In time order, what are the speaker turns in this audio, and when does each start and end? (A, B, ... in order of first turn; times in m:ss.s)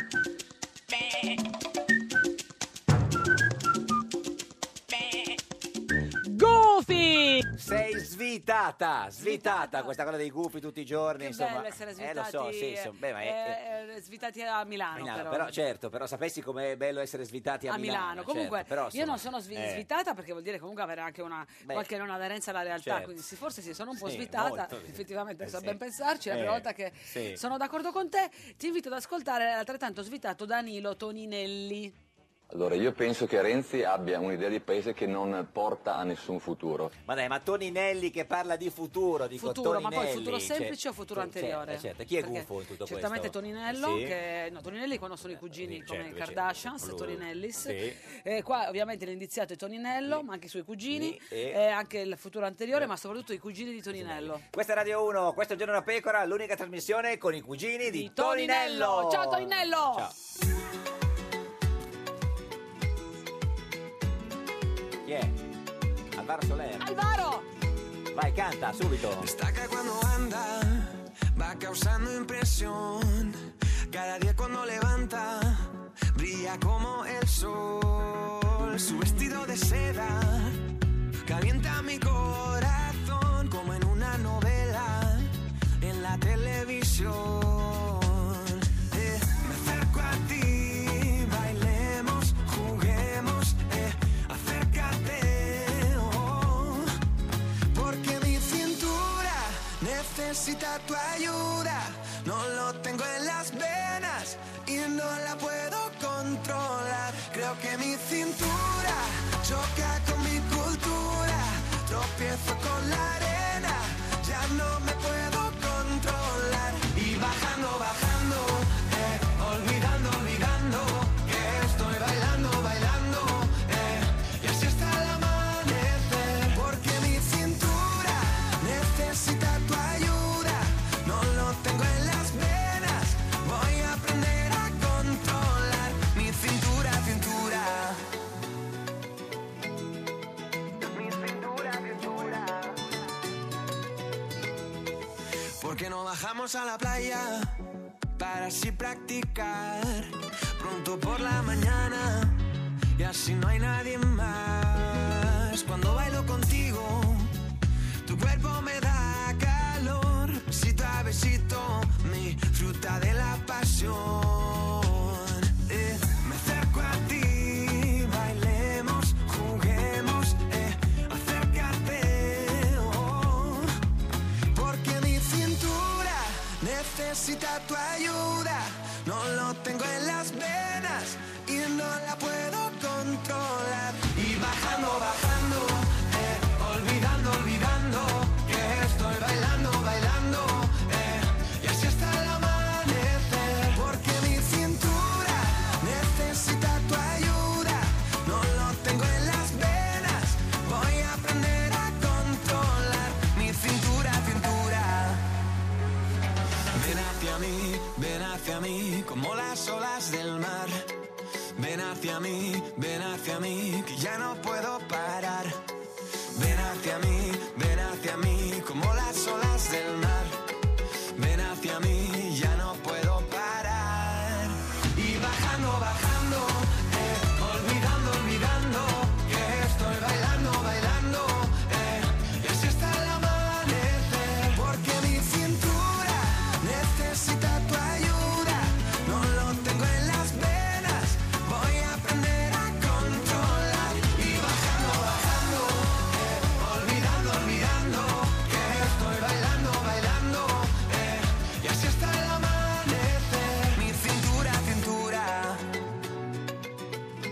0:06.2-0:07.5 A
0:07.6-0:13.6 B
0:09.2-0:10.0 A
0:11.2-0:15.6 A
0:15.0-0:19.9 B
0:17.7-0:32.0 A
0:22.8-0:23.1 B
0:23.9-0:25.8 B
0:26.3-0:27.4 B
0:32.5-0:36.9 C
0:37.1-0:44.2 B
0:39.4-0:54.4 A
0:45.3-0:48.0 B
0:50.9-0:51.6 B
0:53.9-1:00.2 B
0:57.9-1:00.1 A
1:05.0-1:05.4 B
1:06.2-1:06.9 B
1:06.8-1:07.5 A
1:08.1-1:09.3 B
1:09.2-1:36.9 D
1:37.7-2:18.0 D
2:20.8-2:22.8 D
2:25.6-2:27.6 D
2:28.2-2:32.4 D
2:33.0-2:37.4 D
2:38.0-2:53.7 D
2:54.5-3:25.2 D
3:26.7-3:30.9 D
3:31.6-3:35.6 D
3:36.3-3:40.4 D
3:41.2-4:15.6 D